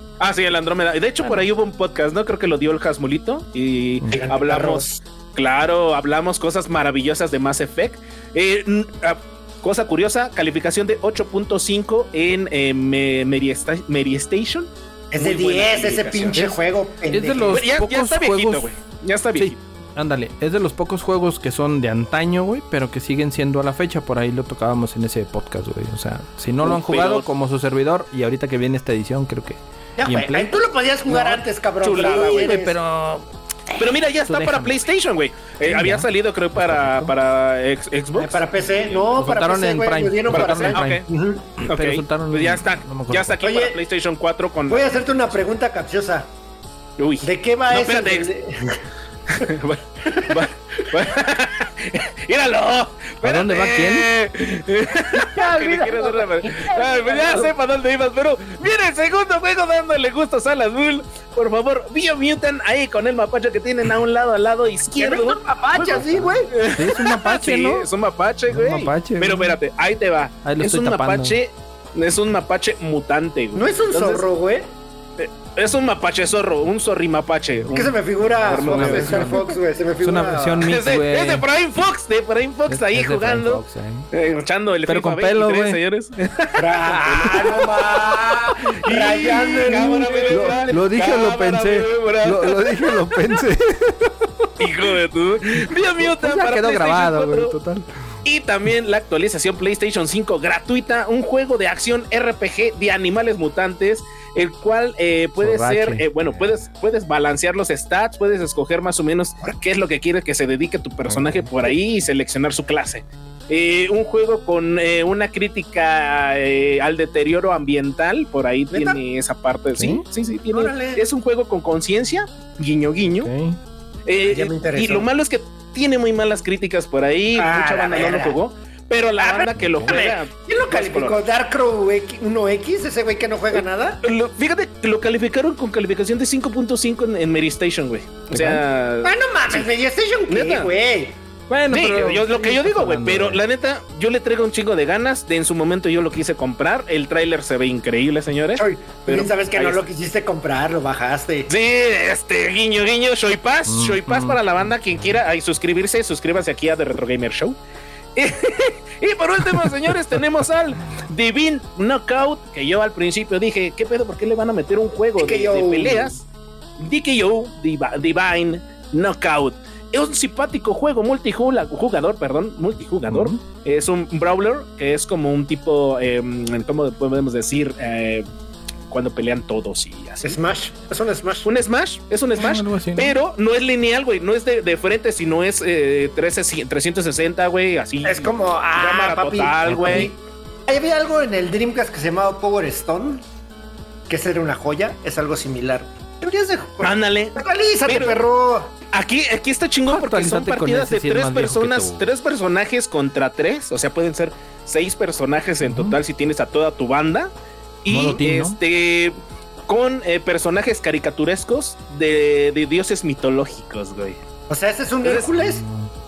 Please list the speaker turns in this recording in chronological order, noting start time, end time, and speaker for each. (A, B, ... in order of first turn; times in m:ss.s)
0:00.2-0:16.6 A
0:04.1-0:05.0 B
0:15.1-0:17.6 B
0:17.1-0:18.7 C
0:17.5-0:19.6 A
0:19.4-0:31.4 C
0:26.6-0:27.2 A
0:30.0-0:32.8 B
0:31.8-0:32.6 A
0:32.0-0:34.8 C
0:33.8-0:39.0 A
0:35.6-0:37.1 C
0:38.1-0:41.5 B
0:39.2-0:41.0 C
0:40.3-0:41.0 A
0:41.6-0:43.3 C
0:41.6-0:45.0 A
0:43.4-0:43.8 B
0:44.7-0:46.3 B
0:47.0-0:48.3 A
0:47.2-0:48.8 B
0:49.3-1:14.2 A
0:50.1-0:50.4 B
0:53.2-0:54.1 C
0:55.1-0:57.5 B
1:05.0-1:06.5 B
1:05.8-1:07.9 C
1:08.5-1:09.6 C
1:10.4-1:11.4 C
1:13.5-1:14.7 B
1:15.2-1:19.5 A
1:17.7-1:20.7 B
1:18.4-1:19.5 C
1:20.0-1:21.4 C
1:20.6-1:33.0 A
1:22.7-1:24.1 C
1:24.9-1:25.8 C
1:26.6-1:30.7 B
1:30.3-1:34.7 C
1:34.6-1:37.5 A
1:35.5-1:38.0 C
1:38.2-2:03.3 A
1:45.4-1:46.4 C
1:51.1-1:51.5 C
1:58.7-1:59.0 B
1:59.8-2:00.0 C
2:00.5-2:01.0 B
2:03.1-2:03.6 C
2:04.0-2:11.2 A
2:04.3-2:05.1 B
2:07.3-2:08.4 B
2:09.2-2:14.0 B
2:09.6-2:10.0 C
2:13.5-2:19.7 A
2:18.4-2:21.2 B
2:20.3-2:20.7 A
2:21.5-2:23.4 C
2:21.7-2:29.8 A
2:28.5-2:31.5 B
2:31.5-2:37.6 A
2:33.7-2:34.7 C
2:38.2-2:46.2 A
2:45.2-2:46.2 B
2:46.8-2:58.2 A
2:53.1-2:53.4 C
2:58.9-3:00.4 A
3:00.2-3:01.5 B
3:01.4-3:10.1 A
3:02.4-3:03.1 C
3:08.0-3:13.2 B
3:09.6-3:10.1 C
3:14.1-3:18.7 B
3:16.8-3:18.2 A
3:18.9-3:27.3 A
3:19.9-3:22.0 C
3:25.6-3:26.0 C
3:27.8-3:34.2 A
3:27.9-3:28.6 C
3:34.5-3:35.6 B
3:35.4-3:35.9 C